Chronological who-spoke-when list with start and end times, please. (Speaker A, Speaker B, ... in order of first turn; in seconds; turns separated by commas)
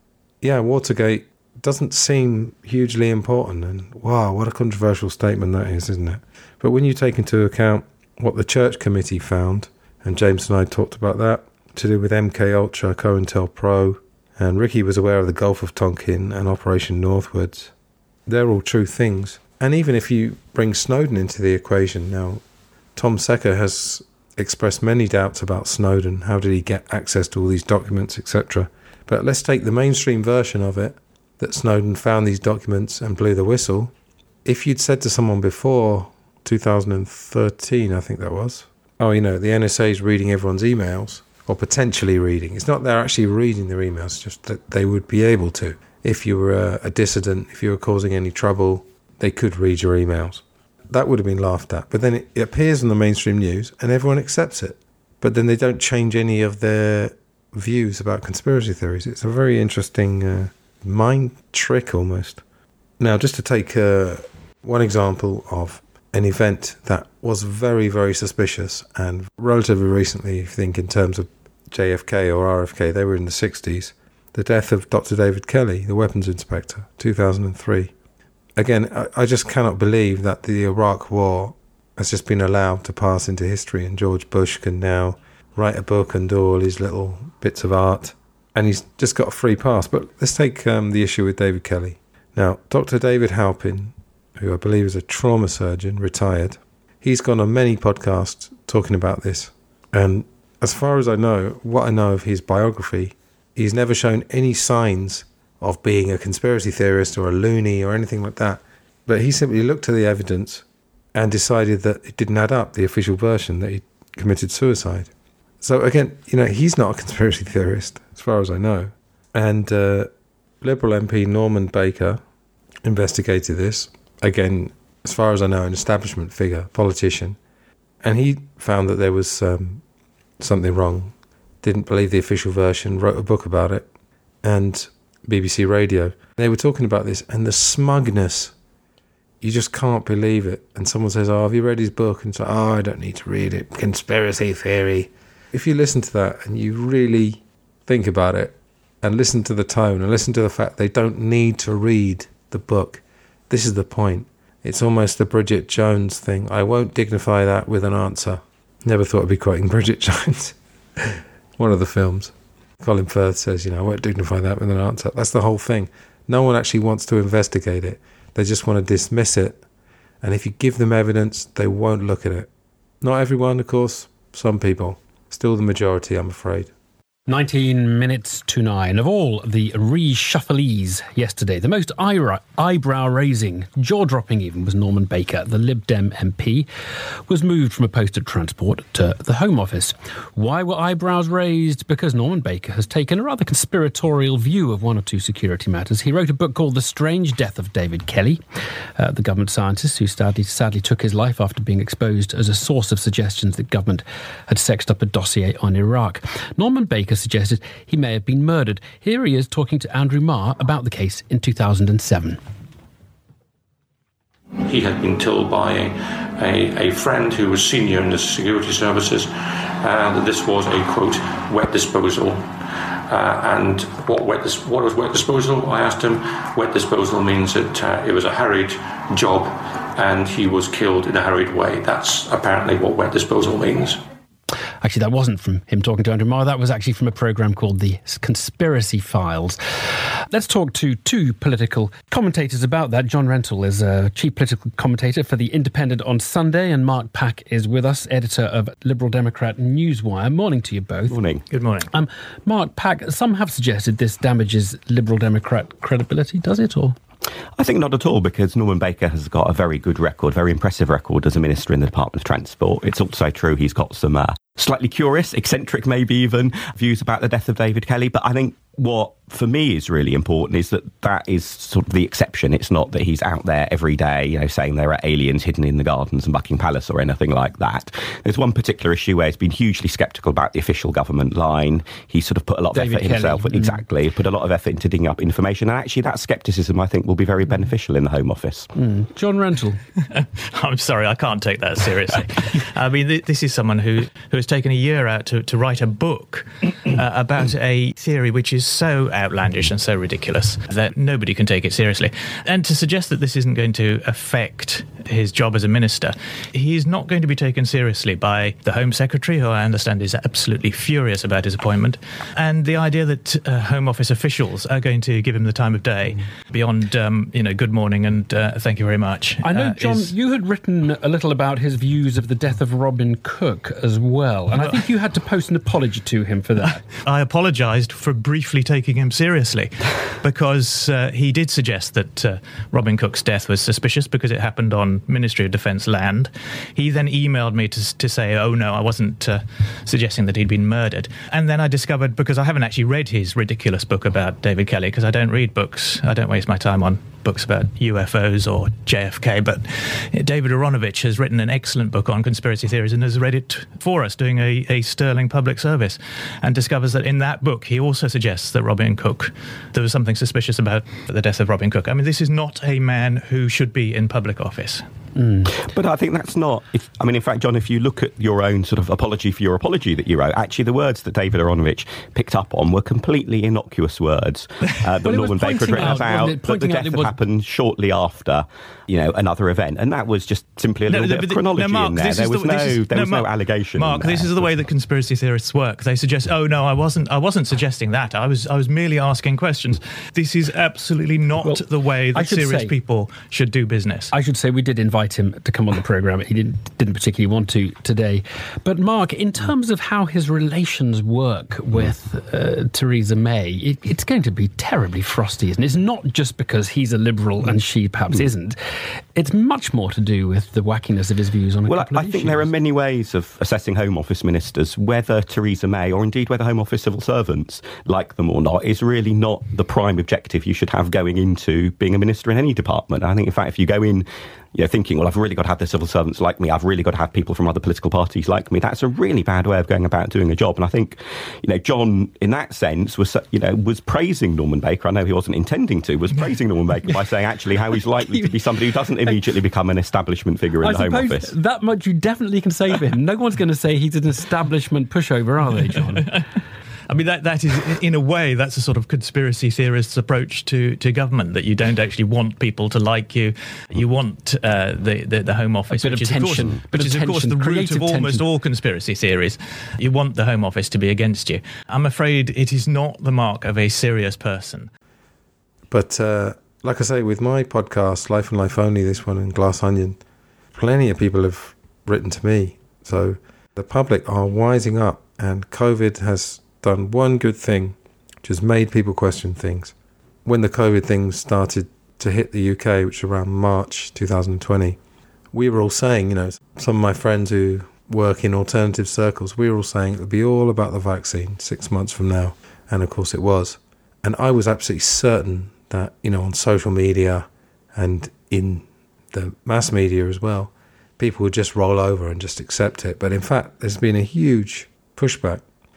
Speaker A: 0.4-17.7, Speaker A: 18.3-22.4, Speaker A: 22.9-33.9, Speaker A: 34.4-62.4, Speaker A: 63.0-77.9, Speaker A: 78.6-115.1, Speaker A: 115.6-120.1, Speaker A: 120.6-122.2, Speaker A: 122.8-127.4, Speaker A: 128.0-129.8, Speaker A: 130.4-133.9, Speaker A: 134.4-138.5, Speaker A: 139.4-169.6, Speaker A: 170.2-172.5, Speaker A: 173.0-176.7, Speaker B: 177.3-186.7, Speaker B: 187.3-198.4, Speaker B: 198.9-212.4, Speaker C: 214.6-234.0, Speaker B: 234.8-239.6, Speaker B: 240.3-251.2, Speaker D: 251.1-251.4, Speaker E: 251.5-251.9, Speaker B: 251.9-257.0, Speaker D: 257.6-288.7, Speaker B: 282.7-283.8, Speaker B: 288.8-289.8, Speaker E: 290.0-320.1, Speaker B: 319.4-326.9, Speaker E: 324.6-324.8, Speaker E: 326.6-364.9, Speaker B: 365.2-365.5, Speaker D: 365.5-384.4, Speaker B: 375.0-377.1, Speaker E: 380.9-394.1, Speaker B: 391.4-392.7, Speaker B: 394.1-408.6, Speaker B: 409.1-412.5, Speaker D: 411.7-441.3, Speaker B: 437.7-438.4, Speaker B: 440.6-446.2, Speaker E: 446.0-446.2, Speaker E: 446.9-464.7, Speaker B: 455.7-458.2, Speaker A: 465.7-470.0, Speaker A: 470.5-479.7, Speaker A: 480.2-484.8, Speaker A: 485.3-505.4